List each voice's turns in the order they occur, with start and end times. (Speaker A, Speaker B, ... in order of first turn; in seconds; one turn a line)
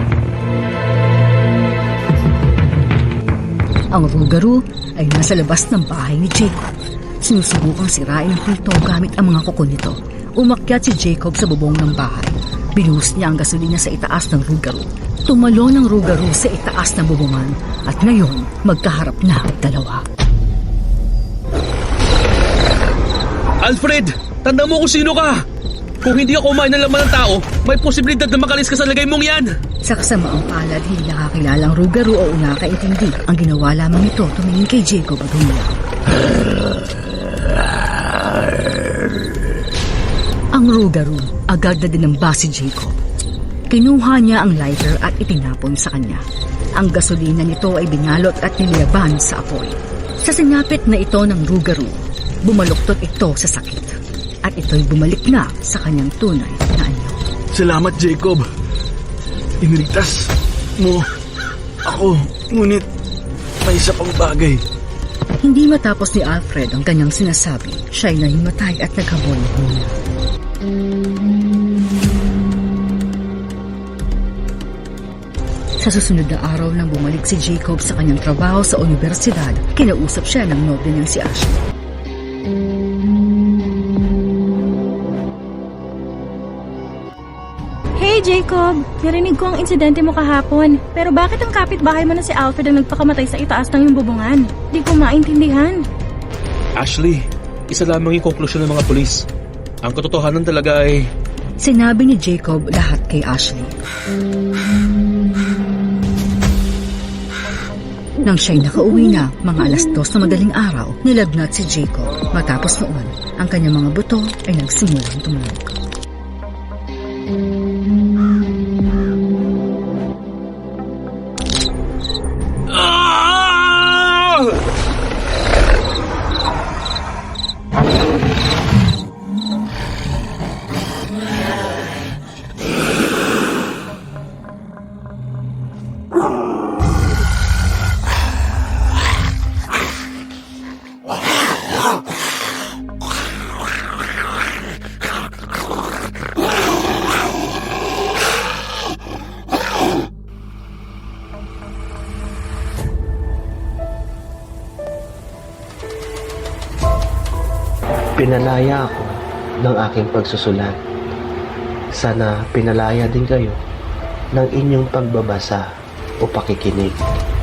Speaker A: 3.9-20.0
Speaker B: 23.6-25.4
Speaker B: 26.0-29.5
Speaker A: 29.9-35.8
Speaker A: 40.5-42.9
Speaker A: 43.7-46.2
Speaker A: 46.8-57.1
Speaker C: 57.5-58.5
Speaker C: 59.6-61.0
Speaker C: 61.9-62.9
Speaker C: 63.6-64.6
Speaker A: 65.4-69.9
Speaker A: 75.8-81.6
Speaker D: 88.0-95.8
Speaker B: 96.8-99.2
Speaker B: 99.8-101.0
Speaker A: 101.6-103.7
Speaker A: 108.2-115.7
Speaker E: 158.2-160.8
Speaker E: 161.9-163.6
Speaker E: 164.3-165.7
Speaker E: 166.2-167.0